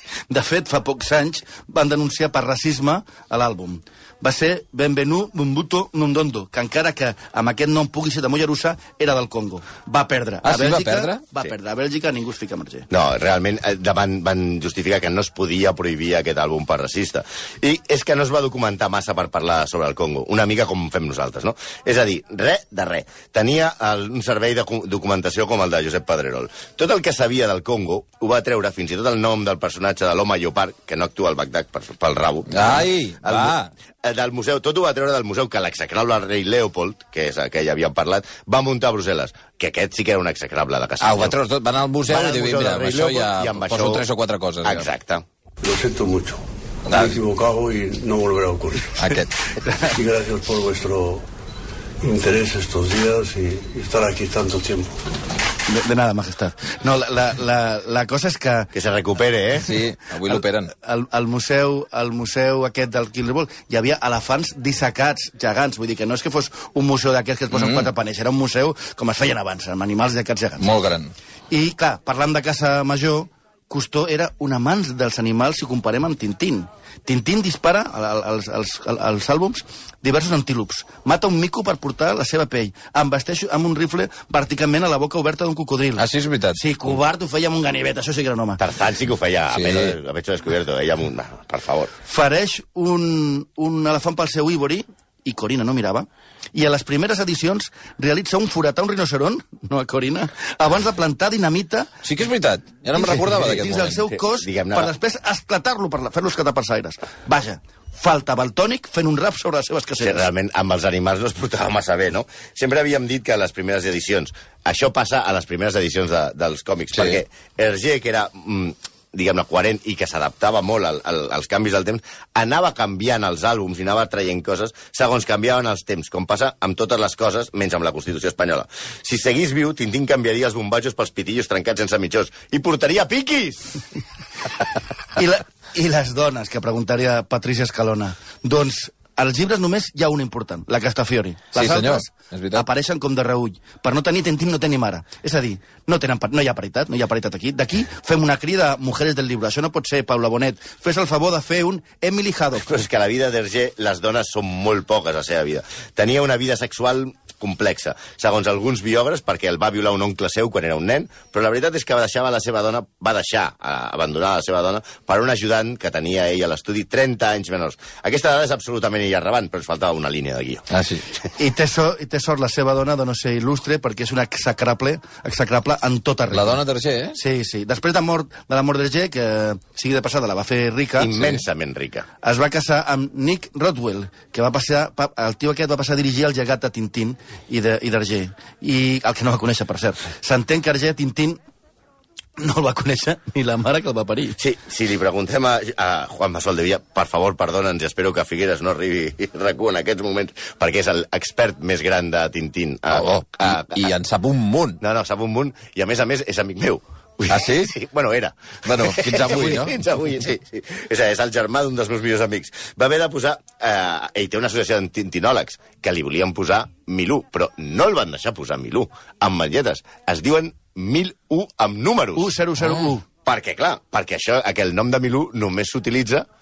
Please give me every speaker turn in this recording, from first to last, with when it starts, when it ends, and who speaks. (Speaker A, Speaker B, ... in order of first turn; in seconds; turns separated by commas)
Speaker A: 0.3-12.9, Speaker B: 10.4-11.4, Speaker C: 12.9-41.4, Speaker B: 32.5-33.7, Speaker B: 41.0-44.9, Speaker C: 42.1-44.0, Speaker C: 44.6-45.2, Speaker D: 45.6-48.9, Speaker B: 46.9-47.2, Speaker B: 49.0-49.3, Speaker D: 49.8-51.2, Speaker D: 52.0-55.0, Speaker A: 55.6-58.7, Speaker C: 58.7-59.7, Speaker B: 59.6-60.7, Speaker A: 60.3-70.6, Speaker B: 67.5-67.9, Speaker B: 70.6-71.1, Speaker A: 71.5-88.6, Speaker B: 86.0-86.6, Speaker C: 88.6-91.9, Speaker B: 89.5-90.0, Speaker A: 92.0-101.9, Speaker B: 102.0-104.0, Speaker A: 102.9-110.3, Speaker C: 104.1-104.9, Speaker C: 110.0-133.8, Speaker A: 135.2-152.7, Speaker B: 141.5-142.6, Speaker C: 152.5-170.6, Speaker B: 170.7-171.0, Speaker A: 171.3-176.6, Speaker B: 176.3-177.2, Speaker A: 177.1-181.3, Speaker C: 181.0-182.1, Speaker A: 182.2-191.4, Speaker A: 192.4-194.4, Speaker C: 194.4-203.9, Speaker B: 202.9-204.8, Speaker C: 204.8-222.3, Speaker B: 207.3-207.7, Speaker B: 208.6-209.8, Speaker A: 222.1-223.0, Speaker B: 222.6-222.8, Speaker C: 223.2-226.2